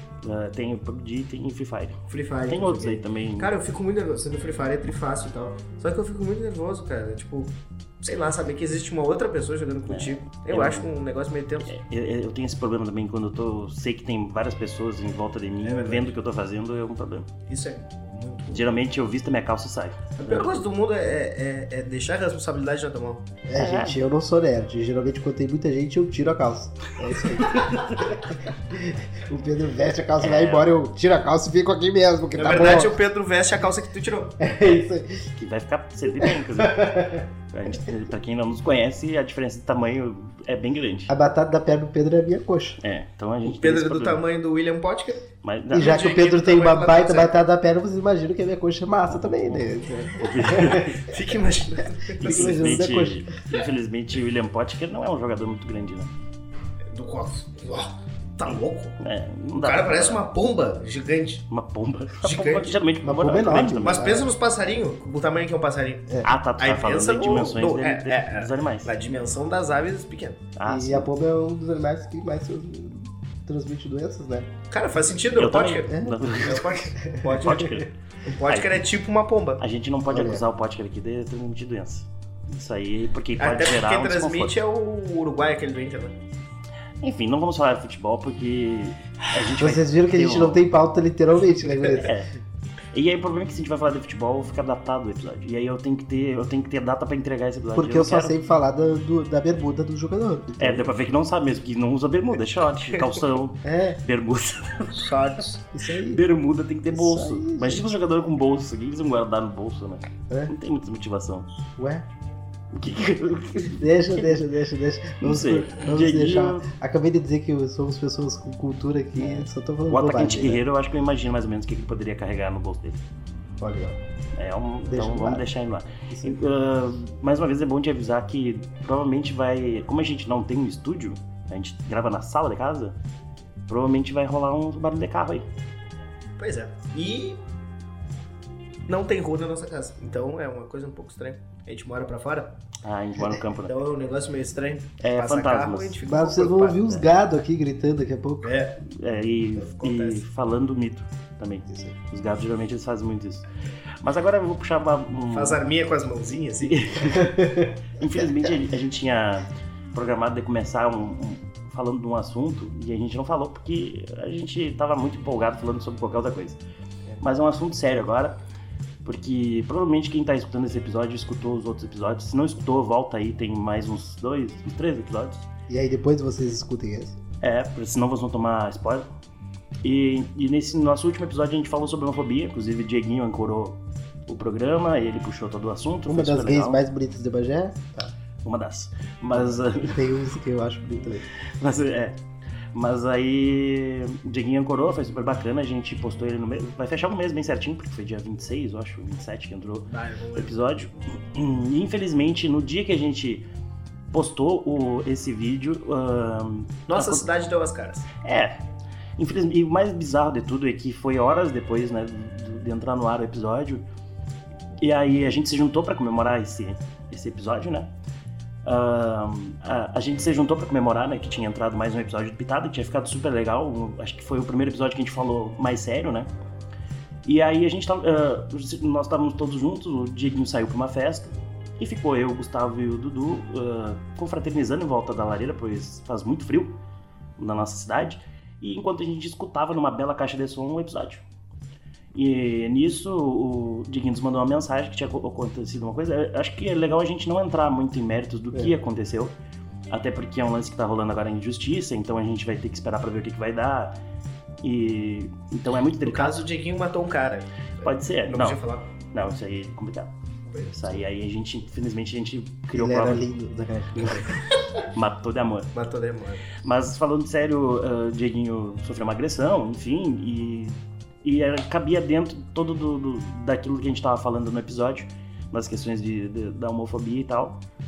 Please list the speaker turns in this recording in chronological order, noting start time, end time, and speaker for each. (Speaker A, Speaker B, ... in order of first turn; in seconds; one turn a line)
Speaker A: 0.2-3.5
Speaker B: 2.1-11.7
Speaker A: 9.9-10.9
Speaker A: 11.6-17.3
Speaker B: 15.6-16.1
Speaker B: 17.5-18.8
Speaker A: 18.5-20.5
Speaker B: 20.2-23.3
Speaker C: 23.5-33.0
Speaker A: 23.6-24.1
Speaker A: 30.2-30.7
Speaker B: 32.4-34.4
Speaker C: 34.4-35.3
Speaker A: 35.4-41.2
Speaker C: 36.2-37.3
Speaker C: 41.1-42.8
Speaker A: 42.8-44.2
Speaker B: 43.4-47.4
Speaker A: 45.4-46.0
Speaker C: 45.7-51.1
Speaker A: 49.1-51.1
Speaker B: 50.9-52.7
Speaker A: 52.2-56.1
Speaker C: 52.2-53.3
Speaker B: 56.9-59.0
Speaker A: 59.0-60.2
Speaker B: 59.6-61.5
Speaker A: 61.5-64.1
Speaker B: 62.2-62.8
Speaker C: 63.0-64.3
Speaker B: 63.6-70.4
Speaker A: 66.2-68.9
Speaker A: 70.6-71.1
Speaker C: 70.7-74.5
Speaker B: 74.7-79.6
Speaker A: 75.3-76.8
Speaker C: 75.9-76.2
Speaker A: 77.4-77.9
Speaker A: 78.5-78.8
Speaker A: 79.6-84.6
Speaker C: 80.1-80.4
Speaker B: 83.4-86.2
Speaker A: 87.0-90.7
Speaker C: 89.5-92.2
Speaker A: 91.9-92.3
Speaker A: 92.9-98.4
Speaker C: 97.7-100.9
Speaker A: 100.6-105.1
Speaker C: 103.6-104.0
Speaker B: 104.9-105.7
Speaker C: 105.7-106.2
Speaker A: 106.1-111.5
Speaker C: 106.9-107.9
Speaker C: 111.8-112.1
Speaker A: 112.7-114.5
Speaker C: 113.8-120.6
Speaker A: 115.2-116.7
Speaker A: 119.2-123.0
Speaker C: 123.6-124.0
Speaker A: 124.4-133.0
Speaker C: 124.9-125.5
Speaker C: 126.1-126.4
Speaker A: 133.7-135.5
Speaker B: 136.4-137.4
Speaker B: 138.9-142.6
Speaker A: 142.8-143.8
Speaker B: 143.7-147.0
Speaker A: 145.0-146.0
Speaker C: 146.0-148.6
Speaker B: 148.4-148.8
Speaker A: 148.8-153.5
Speaker B: 149.6-150.2
Speaker C: 151.7-151.9
Speaker A: 154.0-155.6
Speaker B: 155.3-157.2
Speaker A: 156.6-166.6
Speaker C: 157.4-157.7
Speaker A: 167.2-168.4
Speaker A: 169.1-175.5
Speaker C: 175.7-177.2
Speaker A: 177.4-179.1
Speaker A: 179.8-186.8
Speaker C: 186.1-188.2
Speaker A: 188.4-190.2
Speaker C: 189.4-191.3
Speaker A: 191.5-192.2
Speaker A: 192.7-203.4
Speaker B: 199.9-200.9
Speaker A: 204.1-207.3
Speaker B: 206.9-208.1
Speaker A: 208.2-208.6
Speaker A: 209.2-213.8
Speaker A: 214.8-217.9
Speaker A: 218.7-226.3
Speaker A: 227.2-236.8
Speaker A: 237.4-241.2
Speaker A: 242.1-249.3
Speaker A: 249.9-254.0
Speaker A: 254.6-256.5
Speaker B: 256.0-258.9
Speaker A: 257.8-258.6
Speaker A: 259.1-260.1
Speaker B: 260.5-261.0
Speaker A: 260.7-263.2
Speaker C: 262.8-264.4
Speaker A: 264.9-265.7
Speaker B: 265.7-266.6
Speaker A: 266.6-277.6